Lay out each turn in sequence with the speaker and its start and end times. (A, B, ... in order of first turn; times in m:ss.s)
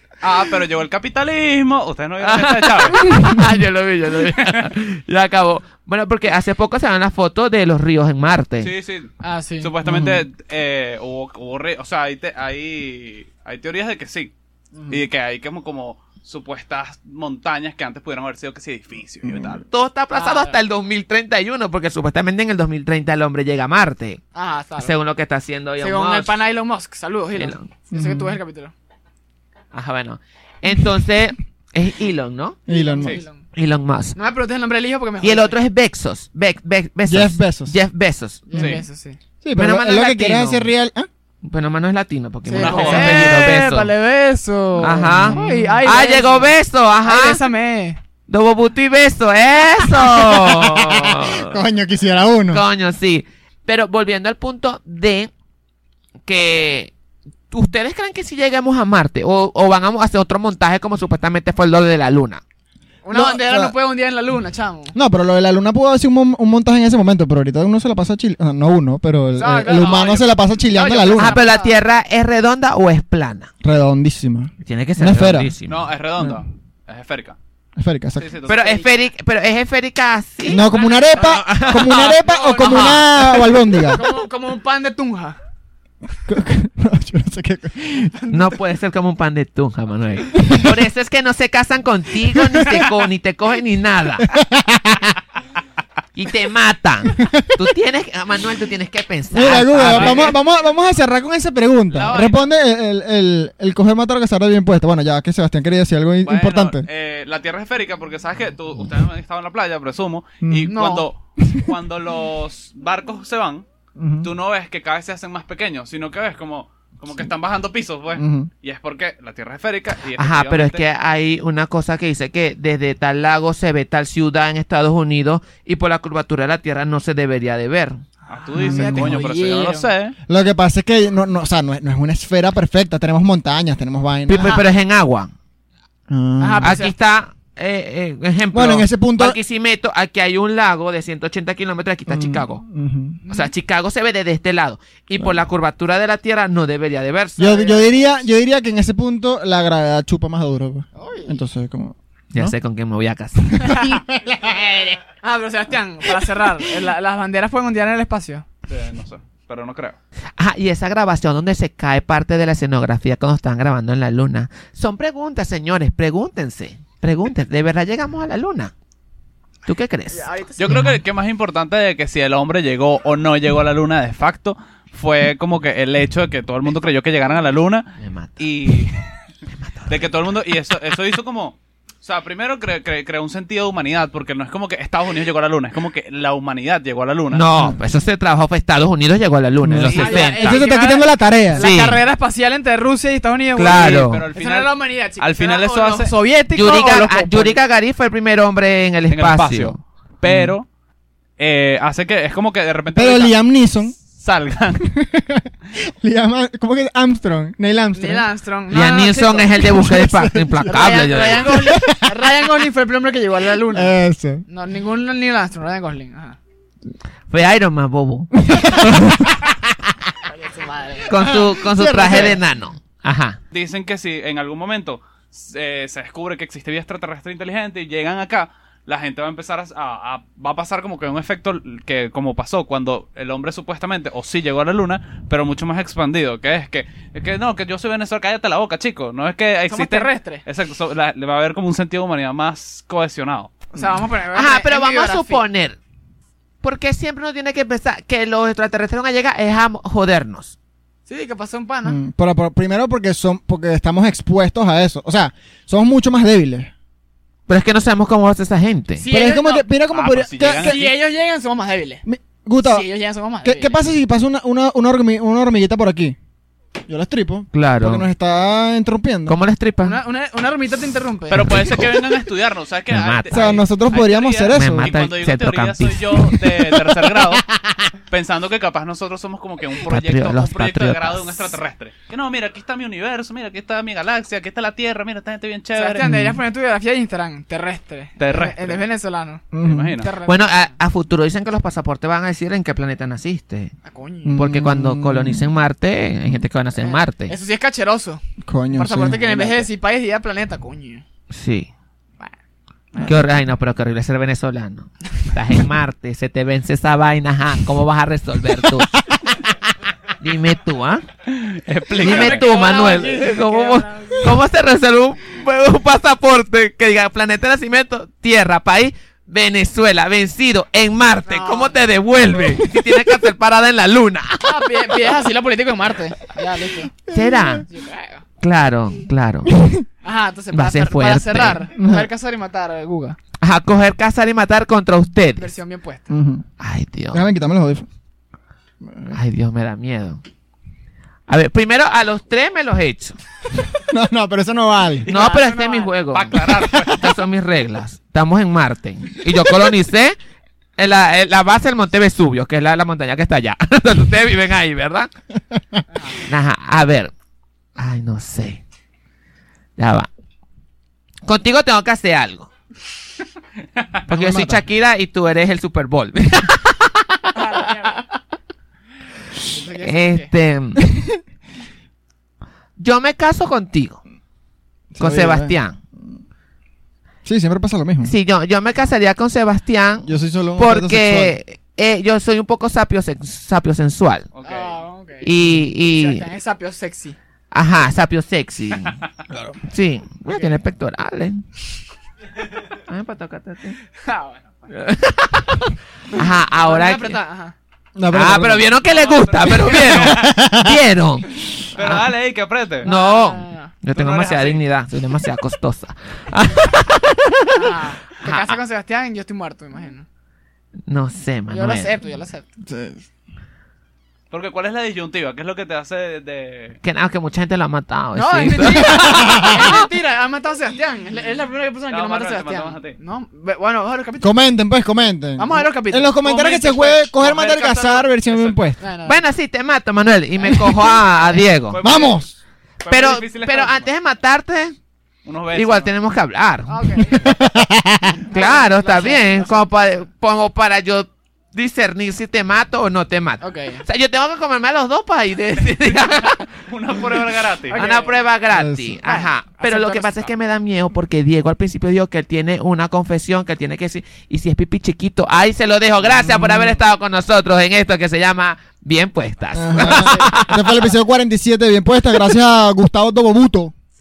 0:00.2-0:03.1 A
0:02.2-0:08.7 B
0:04.3-0:04.7 A
0:08.6-0:14.3 A
0:09.2-0:09.7 C
0:09.8-0:10.2 D
0:14.8-0:15.0 D
0:14.9-0:19.6 A
0:19.2-0:19.6 D
0:19.7-0:24.2 B
0:20.1-0:20.6 C
0:24.4-0:24.9 C
0:24.8-0:26.4 B
0:25.8-0:28.7 C
0:27.4-0:27.7 B
0:27.9-0:28.4 D
0:29.7-0:32.6 B
0:32.7-0:33.2 D
0:32.7-0:33.4 C
0:33.0-0:33.2 A
0:33.6-0:34.2 B
0:34.2-0:35.6 C
0:35.2-0:38.5 B
0:37.1-0:37.8 D
0:38.5-0:39.2 C
0:38.5-0:38.8 A
0:38.5-0:38.8 D
0:39.4-0:41.1 D
0:39.6-0:40.7 B
0:41.4-0:43.9 B
0:42.4-0:46.5 C
0:42.5-0:43.4 A
0:44.8-0:45.9 D
0:44.8-0:47.4 B
0:47.0-0:48.0 C
0:48.3-0:51.6 B
0:50.0-0:52.6 D
0:52.5-0:55.3 B
0:56.3-0:56.9 B
0:57.5-1:02.4 B
1:03.0-1:05.0 C
1:03.1-1:03.7 D
1:05.0-1:11.4 D
1:09.4-1:11.8 C
1:11.2-1:13.5 B
1:13.6-1:15.5 D
1:14.6-1:15.8 B
1:15.7-1:17.4 A
1:17.8-1:18.3 D
1:18.2-1:18.8 A
1:18.5-1:23.2 B
1:18.5-1:18.9 C
1:20.5-1:24.0 D
1:20.7-1:25.4 C
1:26.3-1:28.1 D
1:28.2-1:28.5 C
1:28.3-1:34.3 B
1:30.4-1:30.8 D
1:32.4-1:32.9 D
1:34.2-1:35.2 D
1:36.2-1:40.4 B
1:37.1-1:37.6 D
1:39.3-1:46.9 D
1:39.8-1:40.3 A
1:41.9-1:42.4 A
1:46.2-1:53.6 A
1:50.4-1:50.7 D
1:50.7-1:51.1 C
1:51.4-1:51.7 D
1:54.0-1:54.3 D
1:54.2-2:00.8 A
1:58.2-1:58.5 D
2:00.2-2:08.0 B
2:08.3-2:10.2 A
2:08.3-2:09.9 C
2:08.6-2:09.3 D
2:10.3-2:14.6 D
2:14.3-2:15.3 B
2:14.4-2:14.6 C
2:16.1-2:16.8 D
2:16.4-2:16.9 C
2:16.6-2:22.6 B
2:18.5-2:19.4 D
2:22.1-2:23.2 D
2:23.2-2:23.5 C
2:23.3-2:27.8 B
2:27.4-2:32.5 D
2:27.5-2:28.2 C
2:31.0-2:31.4 C
2:32.3-2:33.7 B
2:33.6-2:34.6 D
2:33.6-2:38.5 C
2:38.7-2:40.0 A
2:40.4-2:48.7 B
2:49.7-2:50.3 B
2:50.1-2:50.8 C
2:50.6-2:59.0 A
2:50.7-2:51.0 D
2:58.0-2:58.4 B
2:59.5-3:00.2 B
2:59.9-3:07.4 A
3:07.3-3:10.5 B
3:09.6-3:11.7 D
3:09.8-3:10.6 A
3:09.9-3:17.6 C
3:11.6-3:12.0 B
3:13.6-3:14.2 B
3:13.6-3:16.2 A
3:16.5-3:19.8 B
3:19.1-3:20.7 A
3:20.2-3:20.6 D
3:21.4-3:23.4 A
3:22.9-3:24.0 D
3:24.0-3:24.8 A
3:24.8-3:28.3 D
3:27.9-3:29.8 C
3:28.7-3:31.6 B
3:29.6-3:32.3 D
3:30.6-3:33.9 C
3:33.7-3:34.4 D
3:34.5-3:36.4 C
3:37.3-3:39.9 B
3:38.4-3:39.4 D
3:40.3-3:41.2 C
3:41.1-3:43.4 B
3:41.2-3:42.4 D
3:43.5-4:03.5 A
3:59.7-4:00.4 C
4:03.7-4:05.4 C
4:03.8-4:04.0 D
4:04.3-4:05.8 B
4:06.6-4:10.5 B
4:11.1-4:12.0 C
4:11.8-4:16.7 D
4:17.5-4:19.1 B
4:19.0-4:19.7 C
4:19.1-4:20.8 D
4:19.9-4:21.0 A
4:20.6-4:22.0 C
4:22.1-4:22.9 D
4:22.6-4:23.8 C
4:23.4-4:26.2 D
4:26.9-4:29.4 D
4:27.5-4:28.1 B
4:29.3-4:30.0 B
4:29.8-4:31.5 C
4:31.3-4:37.4 A
4:31.4-4:32.0 B
4:32.9-4:33.6 B
4:33.3-4:34.9 D
4:34.5-4:37.9 B
4:38.1-4:46.0 A
4:39.9-4:41.6 B
4:45.8-4:50.7 C
4:46.0-4:46.4 D
4:48.2-4:48.8 A
4:49.5-4:50.0 D
4:49.6-4:50.1 A
4:50.2-4:53.7 B
4:53.8-4:54.4 C
4:54.2-4:55.4 D
4:54.3-4:57.4 B
4:56.8-4:58.2 C
4:58.4-4:59.7 D
4:58.8-5:01.0 C
5:01.3-5:01.7 B
5:03.0-5:09.0 B
5:10.2-5:11.0 B
5:11.3-5:12.8 A
5:12.0-5:25.2 B
5:12.0-5:14.4 C
5:21.2-5:21.8 C
5:22.5-5:23.2 D
5:24.4-5:26.9 C
5:27.1-5:27.7 B
5:27.1-5:27.6 D
5:27.6-5:28.2 C
5:28.4-5:29.6 B
5:29.5-5:29.8 D
5:30.0-5:33.2 C
5:30.5-5:31.6 B
5:31.7-5:32.1 D
5:33.4-5:35.5 B
5:35.4-5:36.2 C
5:36.1-5:36.4 D
5:36.6-5:37.3 B
5:37.1-5:37.9 D
5:38.8-5:39.2 D
5:39.1-5:40.2 B
5:41.3-5:43.2 B
5:43.9-5:45.1 D
5:45.0-5:46.0 C
5:45.1-5:50.2 B
5:46.1-5:47.0 A
5:46.5-5:47.0 D
5:50.8-5:55.1 B
5:55.9-5:56.2 C
5:56.2-5:57.1 B
5:57.8-5:58.6 B
5:59.8-6:00.1 B
6:01.2-6:02.5 B
6:04.1-6:07.6 B
6:04.1-6:04.6 D
6:07.3-6:08.0 C
6:09.5-6:10.3 C
6:09.8-6:10.8 B
6:10.8-6:11.2 D
6:12.8-6:14.0 B
6:14.9-6:16.2 D
6:15.0-6:15.8 B
6:17.2-6:18.1 D
6:18.0-6:24.3 B
6:20.0-6:21.4 D
6:24.3-6:24.8 A
6:24.4-6:25.3 C
6:25.2-6:26.3 B
6:25.8-6:27.2 C
6:27.5-6:29.0 B
6:29.6-6:31.4 B
6:30.3-6:30.6 C
6:32.9-6:33.8 B
6:34.0-6:34.4 C
6:34.7-6:37.2 B
6:36.2-6:37.6 C
6:38.0-6:38.7 D
6:38.1-6:42.0 B
6:38.8-6:40.4 A
6:39.6-6:40.8 D
6:41.7-6:42.9 A
6:42.8-6:43.7 C
6:42.8-6:48.5 B
6:43.9-6:44.6 A
6:47.6-6:50.0 C
6:50.9-6:52.0 B
6:51.5-6:52.5 C
6:52.7-6:53.0 D
6:54.3-6:56.8 A
6:56.8-6:59.8 B
6:58.2-7:04.3 C
6:58.8-6:59.8 D
7:01.9-7:03.0 A
7:04.2-7:08.8 D
7:05.4-7:06.4 C
7:06.2-7:08.7 A
7:08.8-7:09.2 C
7:09.0-7:11.8 B
7:11.7-7:13.9 A
7:11.8-7:12.3 D
7:12.9-7:14.8 B
7:15.2-7:15.9 A
7:15.5-7:16.8 B
7:16.7-7:17.4 C
7:17.2-7:18.2 D
7:18.2-7:20.0 C
7:18.2-7:26.5 B
7:23.4-7:23.8 C
7:25.6-7:28.0 A
7:27.7-7:28.3 C
7:27.7-7:40.9 B
7:28.5-7:29.0 D
7:29.0-7:30.3 C
7:36.2-7:36.8 D
7:39.6-7:43.7 D
7:39.8-7:40.5 C